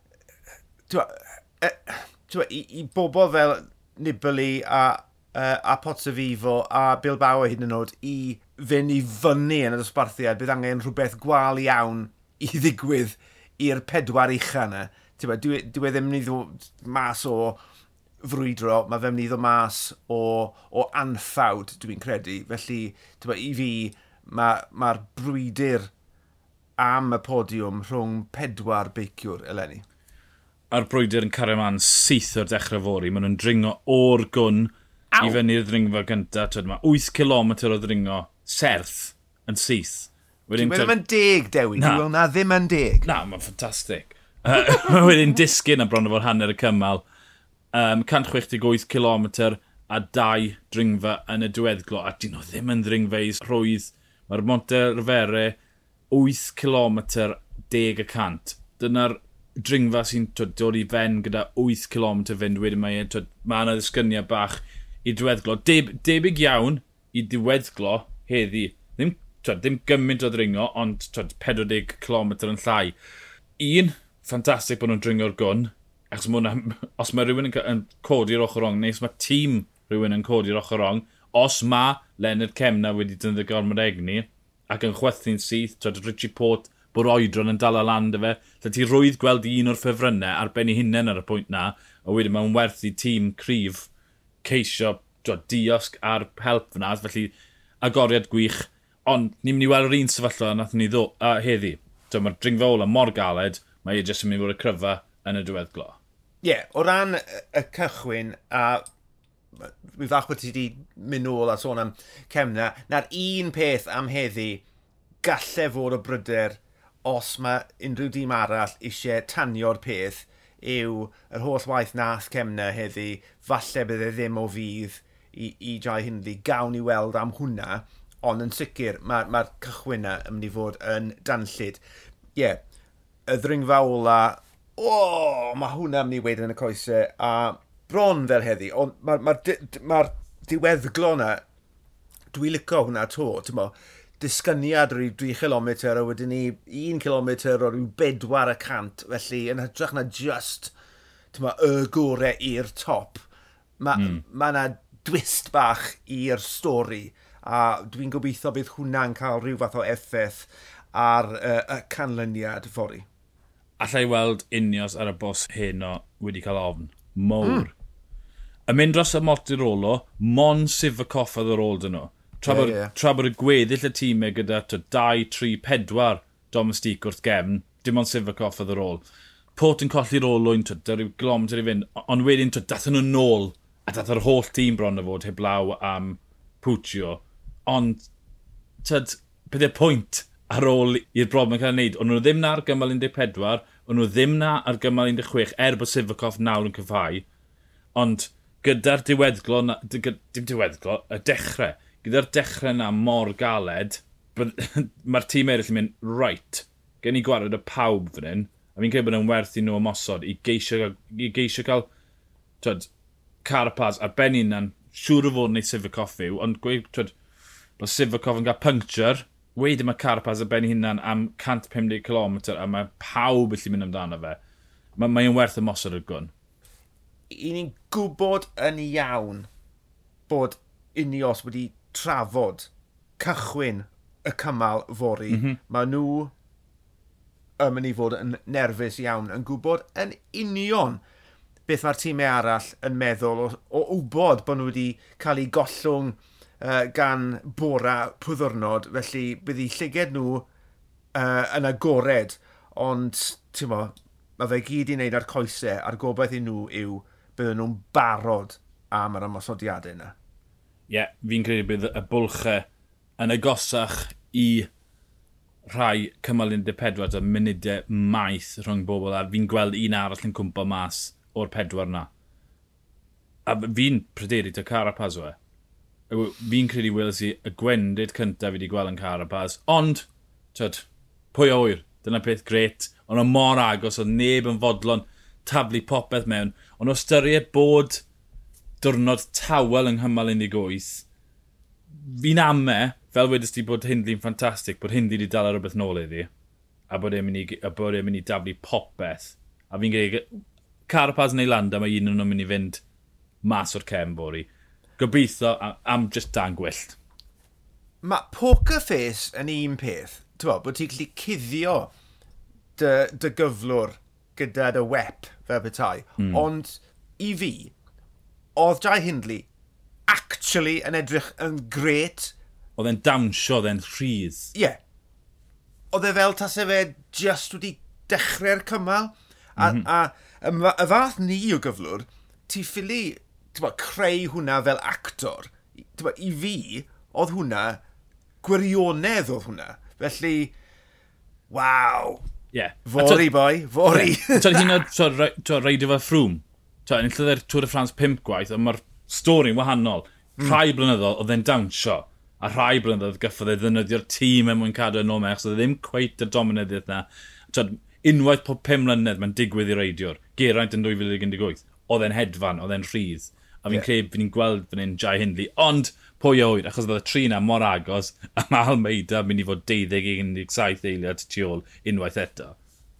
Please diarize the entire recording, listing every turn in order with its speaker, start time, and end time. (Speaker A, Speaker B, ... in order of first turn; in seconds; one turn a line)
Speaker A: 0.9-17.6
Speaker A: 18.2-25.9
Speaker A: 26.8-29.8
Speaker B: 30.7-40.9
Speaker A: 35.1-35.4
Speaker A: 40.5-43.1
Speaker B: 41.8-42.0
Speaker B: 43.0-47.0
Speaker A: 44.5-45.0
Speaker B: 47.7-55.5
Speaker B: 56.1-72.9
Speaker B: 73.6-93.9
Speaker B: 94.4-106.0
Speaker A: 106.4-108.8
Speaker A: 109.5-114.6
Speaker A: 115.2-131.8
Speaker A: 132.3-132.6
Speaker A: 133.3-141.4
Speaker A: 142.3-150.7
Speaker A: 151.3-153.2
Speaker A: 153.8-163.1
Speaker B: 153.9-154.2
Speaker B: 163.8-167.7
Speaker A: 167.4-167.7
Speaker B: 168.7-179.0
Speaker A: 172.4-172.9
Speaker B: 179.6-188.1
Speaker B: 188.8-197.2
Speaker B: 197.9-211.9
Speaker B: 212.6-212.9
Speaker B: 213.4-217.1
Speaker B: 217.8-224.4
Speaker B: 225.0-226.3
Speaker A: 227.3-229.5
Speaker A: 230.3-236.3
Speaker B: 235.3-235.6
Speaker A: 237.6-241.0
Speaker A: 241.7-250.5
Speaker A: 251.1-260.1
Speaker B: 260.9-262.7
Speaker B: 263.2-264.7
Speaker B: 265.7-272.1
Speaker B: 273.4-275.4
Speaker B: 276.1-288.0
Speaker B: 288.8-291.1
Speaker B: 291.9-296.3
Speaker B: 296.9-302.8
Speaker B: 303.4-307.0
Speaker A: 308.0-311.9
Speaker A: 312.8-317.7
Speaker B: 316.2-316.5
Speaker A: 318.5-319.5
Speaker A: 320.1-322.3
Speaker B: 322.8-324.5
Speaker A: 324.5-324.8
Speaker A: 325.9-337.8
Speaker B: 329.6-329.9
Speaker A: 338.4-340.5
Speaker A: 341.5-342.2
Speaker B: 342.5-343.3
Speaker A: 342.9-344.7
Speaker B: 343.9-372.6